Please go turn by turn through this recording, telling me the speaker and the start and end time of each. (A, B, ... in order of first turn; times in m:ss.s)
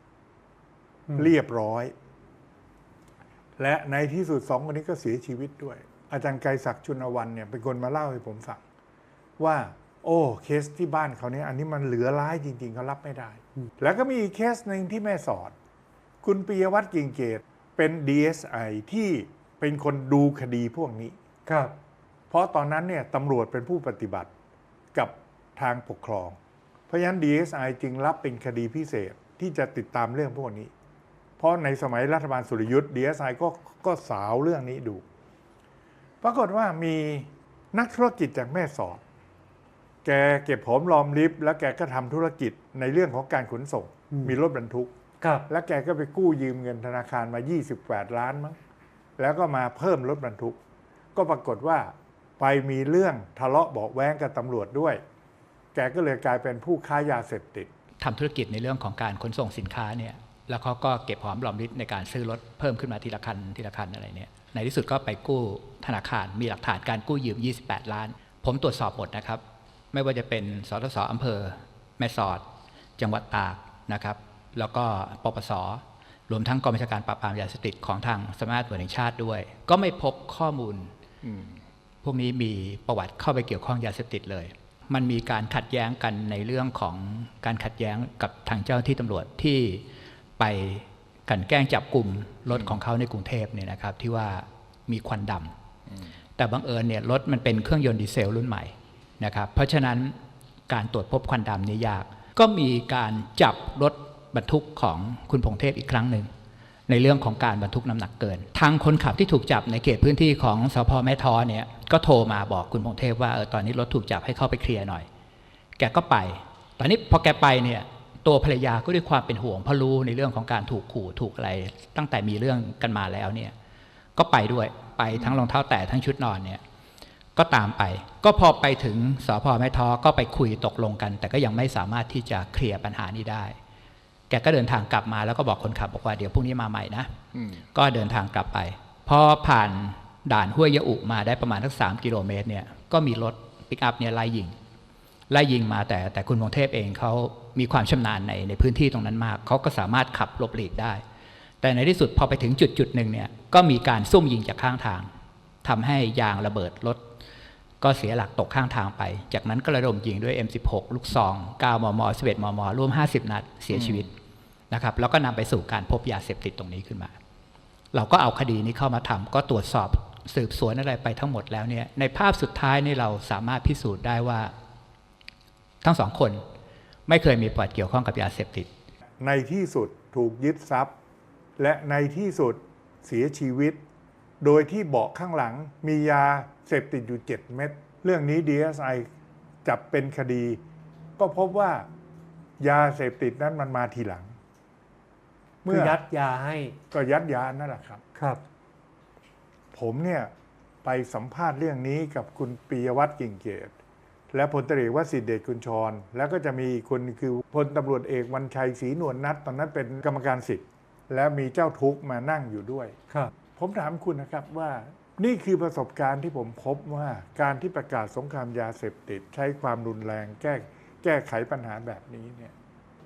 0:01.1-0:01.3 A
0:01.2-0:01.9 B
0:03.6-0:08.6 B
0:09.4-0:15.5 B
0:16.2-0:21.2 B
0:21.4-0:21.8 A
0:22.3-0:24.3 B
0:24.9-0:26.4 B
0:26.9-0:30.7 B
0:31.4-0:35.0 B
0:36.2-0:39.0 B
0:40.0-0:44.9 B
0:45.2-0:45.5 A
0:45.5-0:48.6 B
0:49.2-0:50.6 B
0:51.1-0:55.0 B
0:55.7-0:57.7 B
0:58.0-1:09.4 C
1:09.9-1:12.4 C
1:13.0-1:20.9 C
1:21.2-1:21.6 B
1:22.0-1:29.8 C
1:30.4-1:35.5 C
1:36.4-1:40.1 C
1:40.7-1:46.3 C
1:46.9-1:55.1 C
1:55.8-2:03.5 C
2:04.2-2:06.6 C
2:07.4-2:13.5 C
2:14.3-2:17.1 C
2:17.3-2:17.6 B
2:17.6-2:24.5 C
2:25.3-2:31.0 C
2:31.6-2:35.1 C
2:35.6-2:37.0 C
2:37.8-2:44.1 C
2:43.7-2:44.0 B
2:44.7-2:47.1 C
2:47.9-2:54.5 C
2:55.8-2:56.4 C
2:57.1-2:58.7 C
2:59.2-3:00.9 B
3:01.6-3:03.8 B
3:04.4-3:09.1 B
3:09.6-3:10.6 B
3:11.2-3:11.9 B
3:12.6-3:14.3 B
3:15.6-3:16.0 B
3:15.6-3:16.8 A
3:16.9-3:18.0 B
3:18.1-3:18.4 A
3:19.7-3:20.3 B
3:20.8-3:23.7 B
3:24.3-3:32.9 B
3:33.6-3:42.5 B